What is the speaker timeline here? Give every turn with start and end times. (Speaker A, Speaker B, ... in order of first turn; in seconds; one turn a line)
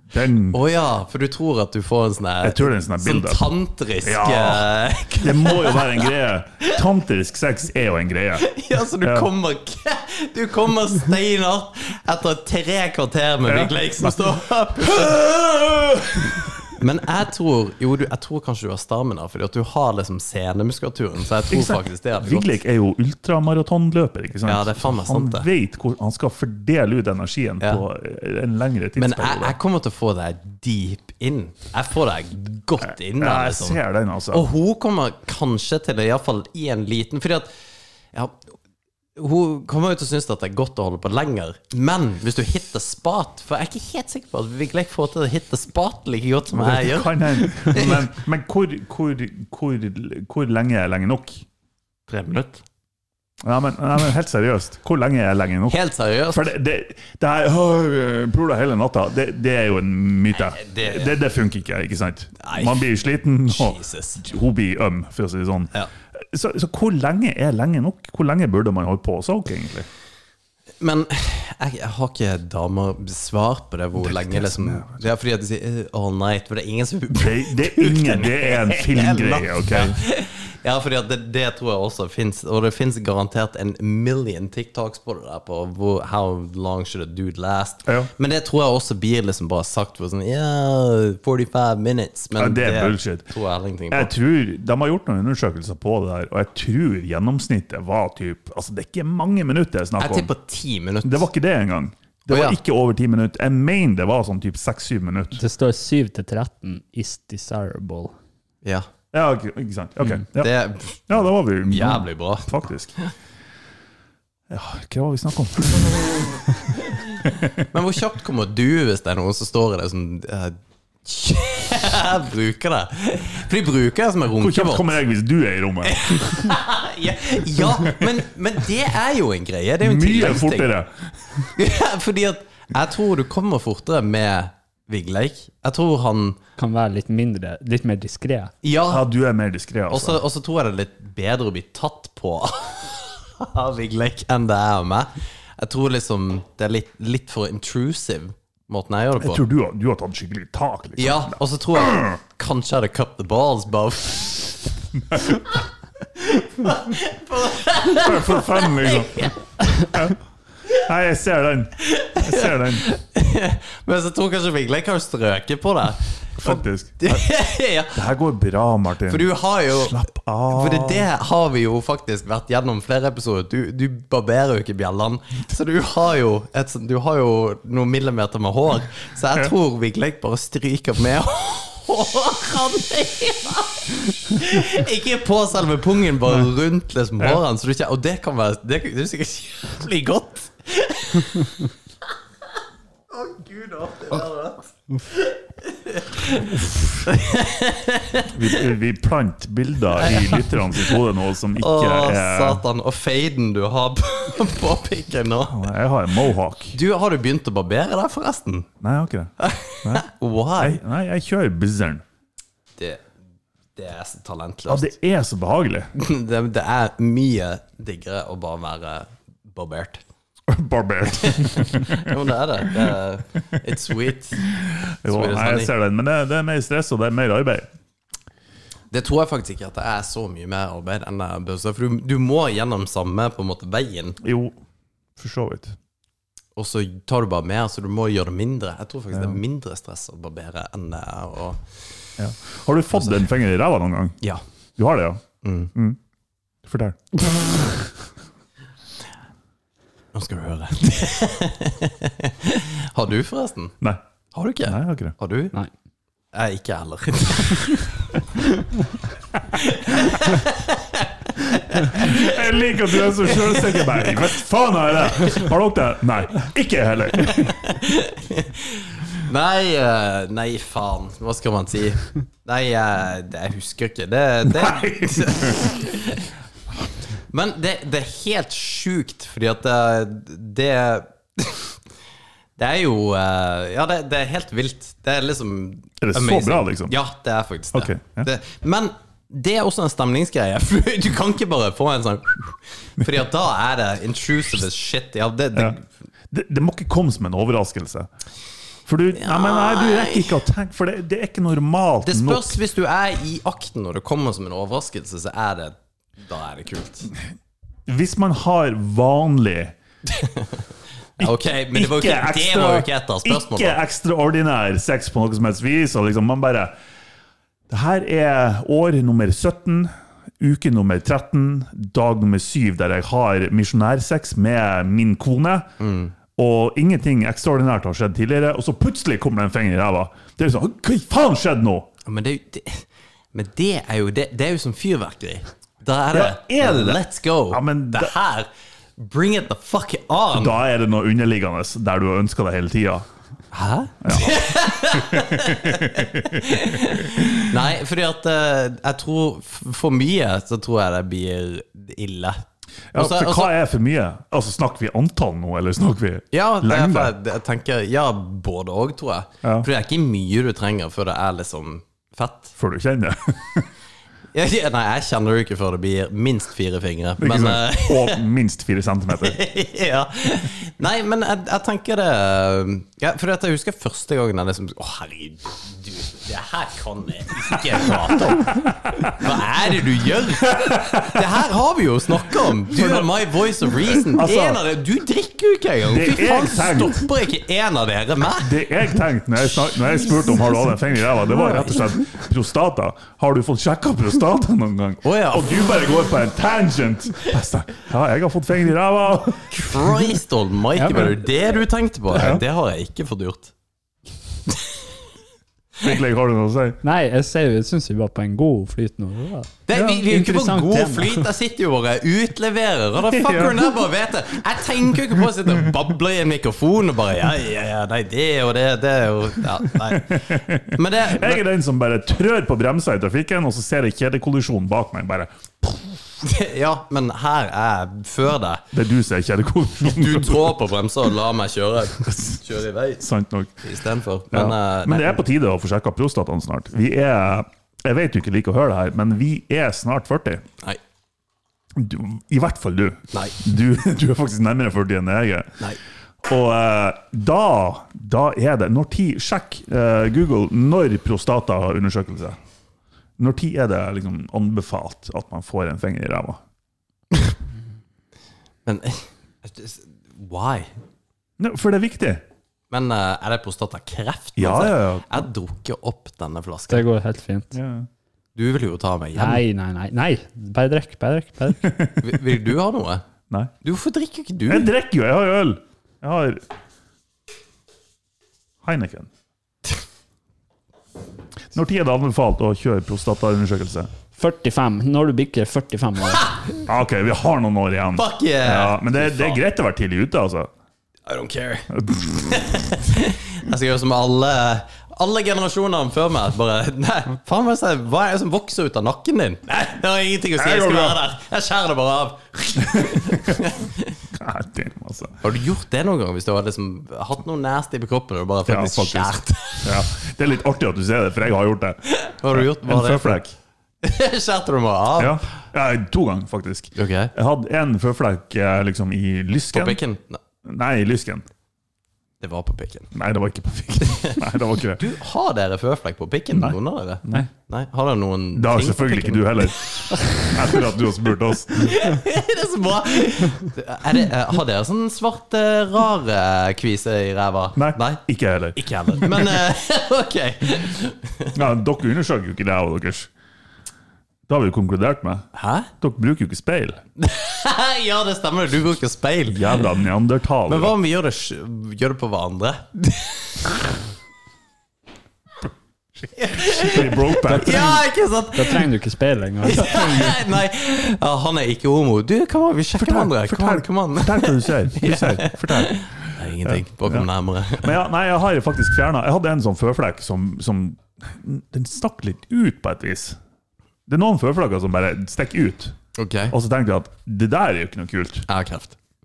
Speaker A: 0.1-0.6
Speaker B: 0.5-6.1
Speaker A: 2.4-3.5
Speaker A: 4.0-9.3
Speaker B: 8.4-15.3
Speaker A: 13.4-14.1
Speaker A: 14.9-16.4
Speaker B: 16.7-22.6
Speaker A: 21.5-29.6
Speaker B: 24.4-25.5
Speaker B: 29.0-33.8
Speaker A: 32.8-34.4
Speaker B: 34.3-37.5
Speaker B: 38.1-38.4
Speaker B: 39.1-48.0
Speaker A: 46.5-51.4
Speaker B: 52.1-52.6
Speaker A: 53.4-55.8
Speaker B: 55.7-56.4
Speaker A: 56.3-69.9
Speaker B: 60.3-61.1
Speaker B: 62.4-62.8
Speaker B: 63.5-64.2
Speaker B: 70.8-94.1
Speaker A: 74.0-75.0
Speaker A: 77.1-80.0
Speaker A: 92.4-93.3
Speaker A: 93.9-100.3
Speaker B: 100.0-101.3
Speaker A: 101.0-105.4
Speaker B: 102.3-102.6
Speaker C: 105.4-108.1
Speaker A: 109.1-110.5
Speaker B: 110.3-111.1
Speaker A: 111.1-112.9
Speaker B: 111.6-113.1
Speaker A: 114.5-116.4
Speaker A: 117.2-117.6
Speaker B: 117.7-125.0
Speaker A: 124.4-126.5
Speaker B: 125.8-130.7
Speaker A: 129.8-131.0
Speaker B: 131.6-136.4
Speaker C: 136.6-138.5
Speaker B: 138.6-139.0
Speaker A: 138.9-140.2
Speaker B: 139.9-149.4
Speaker A: 149.2-152.1
Speaker B: 151.0-154.6
Speaker A: 155.1-155.4
Speaker B: 155.1-159.4
Speaker A: 157.8-159.3
Speaker A: 159.9-160.2
Speaker A: 160.7-162.8
Speaker B: 161.8-168.0
Speaker A: 166.4-167.2
Speaker A: 167.9-171.1
Speaker B: 169.1-191.6
Speaker B: 193.1-198.6
Speaker A: 196.5-197.1
Speaker A: 198.3-202.6
Speaker B: 199.9-201.0
Speaker B: 201.6-205.7
Speaker A: 205.5-206.8
Speaker B: 206.7-208.7
Speaker A: 208.8-210.1
Speaker B: 209.4-210.8
Speaker A: 210.6-212.0
Speaker B: 212.8-213.0
Speaker B: 213.8-214.9
Speaker A: 214.7-215.9
Speaker B: 215.9-220.0
Speaker A: 220.5-222.1
Speaker B: 221.1-224.4
Speaker A: 222.7-222.9
Speaker A: 224.5-227.7
Speaker B: 225.0-225.7
Speaker B: 228.9-234.2
Speaker A: 234.2-234.5
Speaker A: 235.2-235.8
Speaker B: 236.6-241.6
Speaker A: 239.1-239.4
Speaker A: 242.2-244.2
Speaker B: 242.9-243.2
Speaker A: 244.8-245.2
Speaker B: 245.4-245.7
Speaker A: 246.6-247.5
Speaker B: 250.1-253.7
Speaker B: 254.3-255.5
Speaker A: 254.6-255.1
Speaker B: 256.3-258.0
Speaker B: 259.5-264.2
Speaker A: 261.9-267.6
Speaker B: 265.1-265.5
Speaker B: 267.2-276.3
Speaker A: 274.4-275.7
Speaker B: 277.3-281.8
Speaker B: 282.6-295.9
Speaker A: 286.0-286.9
Speaker A: 287.7-288.3
Speaker A: 296.3-298.1
Speaker A: 298.9-302.6
Speaker B: 299.1-300.4
Speaker B: 302.0-307.1
Speaker A: 307.9-309.7
Speaker B: 310.1-310.6
Speaker B: 311.2-313.8
Speaker A: 311.2-316.7
Speaker A: 317.7-325.7
Speaker B: 325.8-326.1
Speaker A: 326.4-331.9
Speaker B: 332.1-340.6
Speaker A: 336.1-338.1
Speaker A: 340.3-343.1
Speaker B: 343.5-352.4
Speaker A: 344.0-347.6
Speaker A: 352.9-357.1
Speaker B: 352.9-353.5
Speaker B: 356.3-362.5
Speaker A: 359.4-359.7
Speaker A: 362.6-363.7
Speaker B: 364.3-368.2
Speaker A: 367.2-369.4
Speaker B: 369.2-388.6
Speaker A: 377.8-379.2
Speaker A: 380.4-381.3
Speaker A: 382.6-383.1
Speaker A: 383.8-384.6
Speaker A: 385.9-387.1
Speaker A: 388.4-400.2
Speaker B: 391.4-391.8
Speaker B: 395.0-395.5
Speaker B: 399.5-403.5
Speaker C: 400.8-401.1
Speaker A: 402.1-402.4
Speaker B: 404.5-404.8
Speaker A: 405.8-406.8
Speaker C: 406.8-411.3
Speaker B: 409.7-421.4
Speaker A: 413.1-413.7
Speaker A: 419.8-426.0
Speaker B: 426.2-428.6
Speaker A: 428.7-430.6
Speaker B: 429.8-433.0
Speaker A: 432.1-432.4
Speaker A: 433.0-433.6
Speaker B: 433.6-435.2
Speaker A: 434.3-440.4
Speaker A: 441.7-445.6
Speaker A: 446.2-452.4
Speaker A: 453.2-456.4
Speaker B: 458.6-460.7
Speaker A: 461.4-462.2
Speaker B: 462.7-466.9
Speaker A: 464.4-465.3
Speaker C: 466.7-467.5
Speaker A: 467.5-467.9
Speaker B: 468.4-469.4
Speaker C: 469.1-471.7
Speaker A: 471.6-472.2
Speaker B: 472.0-473.0
Speaker B: 473.6-474.7
Speaker A: 474.5-476.4
Speaker A: 478.6-479.1
Speaker A: 481.5-483.9
Speaker C: 484.1-486.3
Speaker A: 486.6-490.5
Speaker B: 487.9-489.4
Speaker B: 491.1-504.0
Speaker A: 491.7-492.7
Speaker A: 500.4-501.0
Speaker A: 502.7-503.4
Speaker A: 504.1-505.2
Speaker B: 505.2-509.8
Speaker A: 508.5-513.3
Speaker B: 511.9-513.3
Speaker B: 513.8-515.2
Speaker A: 515.0-519.8
Speaker B: 516.7-517.1
Speaker B: 519.5-520.2
Speaker A: 520.4-521.2
Speaker B: 522.2-522.9
Speaker A: 522.9-524.8
Speaker B: 523.8-524.2
Speaker B: 524.7-530.6
Speaker A: 526.3-527.3
Speaker A: 528.3-531.8
Speaker B: 531.5-538.0
Speaker A: 537.5-539.4
Speaker B: 538.5-541.3
Speaker A: 541.3-543.1
Speaker A: 544.3-545.2
Speaker B: 545.3-545.7
Speaker A: 545.8-546.8
Speaker B: 547.0-549.7
Speaker A: 549.3-550.7
Speaker B: 550.5-553.6
Speaker B: 556.1-558.7
Speaker A: 556.3-557.8
Speaker C: 558.3-560.1
Speaker B: 559.5-567.7
Speaker A: 559.5-560.1
Speaker A: 562.8-573.2
Speaker A: 573.9-575.8
Speaker B: 576.0-576.3
Speaker A: 576.3-578.2
Speaker B: 578.3-578.8